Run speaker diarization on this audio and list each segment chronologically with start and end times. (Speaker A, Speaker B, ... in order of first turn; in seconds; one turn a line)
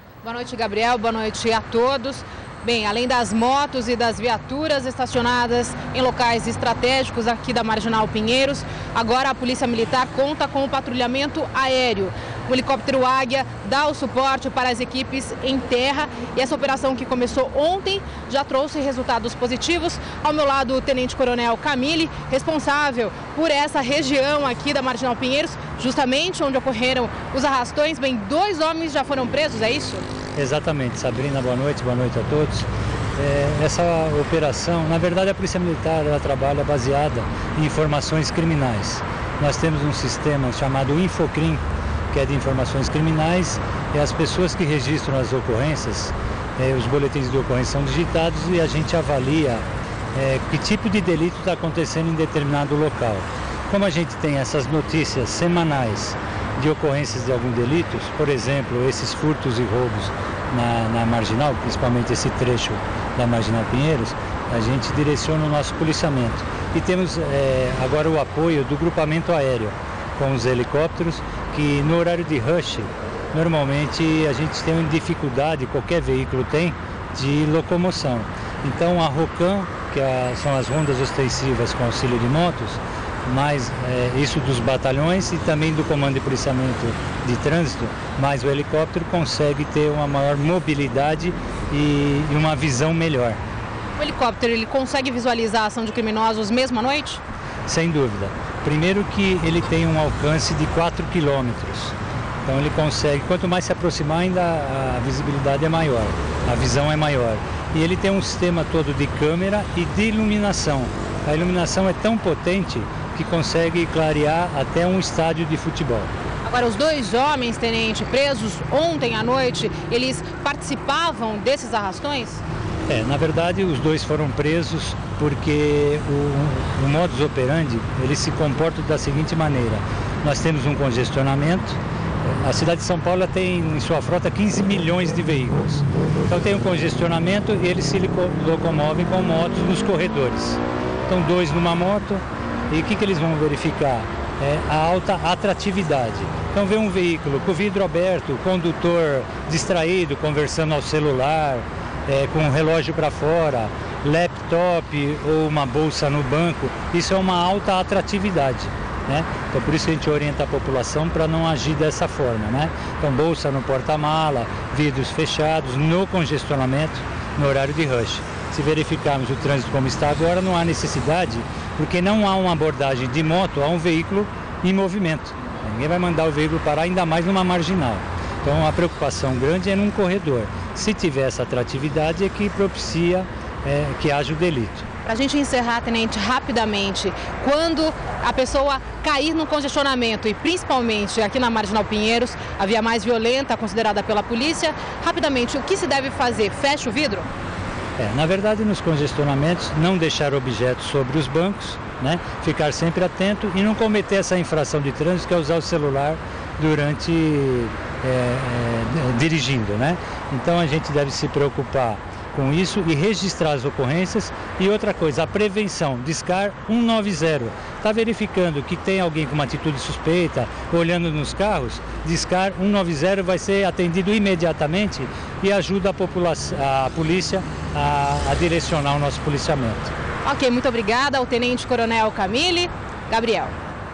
Speaker A: 0.2-30.0
Speaker B: 30.3-93.4
Speaker A: 94.0-97.2
Speaker B: 97.7-116.1
Speaker A: 116.4-122.4
Speaker B: 122.9-184.9
Speaker A: 185.0-197.3
Speaker B: 198.0-229.9
Speaker A: 230.2-233.5